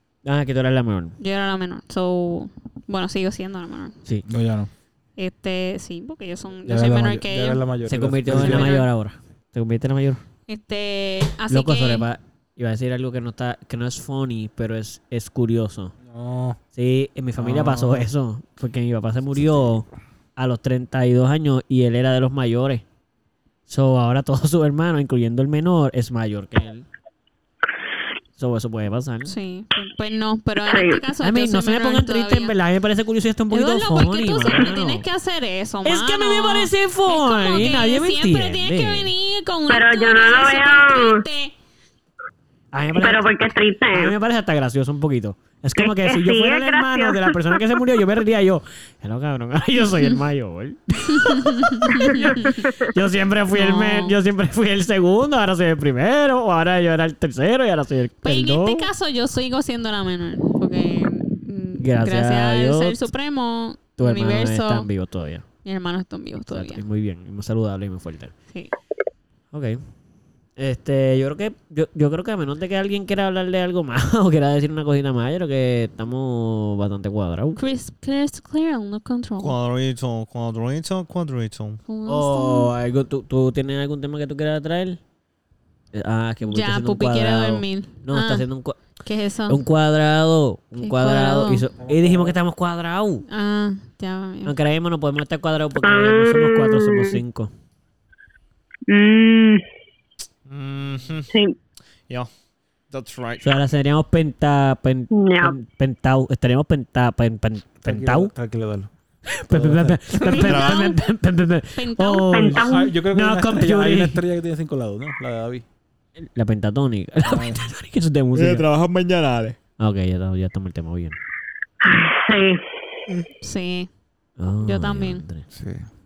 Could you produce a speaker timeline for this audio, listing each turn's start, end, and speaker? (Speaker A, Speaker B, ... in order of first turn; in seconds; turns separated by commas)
Speaker A: 0.2-1.1, Speaker B: 1.2-4.0, Speaker C: 4.3-4.7, Speaker B: 5.2-7.6, Speaker C: 6.7-8.8, Speaker A: 7.9-10.2, Speaker B: 8.3-8.9, Speaker B: 10.5-12.1, Speaker A: 11.5-15.9, Speaker C: 16.1-16.6, Speaker A: 16.8-22.8, Speaker C: 17.4-18.1, Speaker A: 23.7-26.9, Speaker A: 28.4-29.3, Speaker B: 29.3-32.5, Speaker D: 30.7-31.0, Speaker A: 31.2-35.0, Speaker B: 33.5-41.5, Speaker A: 35.9-39.1, Speaker D: 39.7-41.2, Speaker A: 42.7-43.3, Speaker D: 43.0-44.1, Speaker A: 43.9-58.9, Speaker D: 45.8-47.6, Speaker B: 51.3-52.6, Speaker B: 53.5-54.1, Speaker B: 58.2-64.9, Speaker A: 61.8-63.1, Speaker A: 64.0-65.5, Speaker B: 65.6-66.8, Speaker A: 66.5-68.3, Speaker A: 69.5-69.8, Speaker A: 70.6-77.6, Speaker B: 77.6-79.5, Speaker E: 79.4-81.8, Speaker B: 81.9-82.7, Speaker A: 82.1-85.0, Speaker A: 85.9-88.8, Speaker B: 86.5-88.5, Speaker B: 89.0-89.6, Speaker A: 89.5-93.2, Speaker B: 90.8-91.7, Speaker C: 91.8-92.4, Speaker B: 93.3-94.5, Speaker A: 94.5-97.5, Speaker D: 95.8-97.2, Speaker D: 98.9-99.6, Speaker E: 100.5-101.3, Speaker D: 101.3-101.6, Speaker E: 102.9-103.6, Speaker A: 103.4-108.3, Speaker D: 105.1-105.6, Speaker C: 107.9-108.9, Speaker A: 109.3-114.2, Speaker C: 109.5-110.0, Speaker B: 110.2-111.0, Speaker E: 110.4-110.9, Speaker B: 111.8-112.6, Speaker D: 112.3-112.9, Speaker C: 112.6-115.6, Speaker A: 116.2-118.7, Speaker C: 117.2-117.7, Speaker E: 118.3-119.6, Speaker A: 119.8-121.2, Speaker D: 121.8-122.6, Speaker B: 123.4-123.9, Speaker A: 124.4-125.5, Speaker B: 124.6-125.2, Speaker C: 125.5-125.9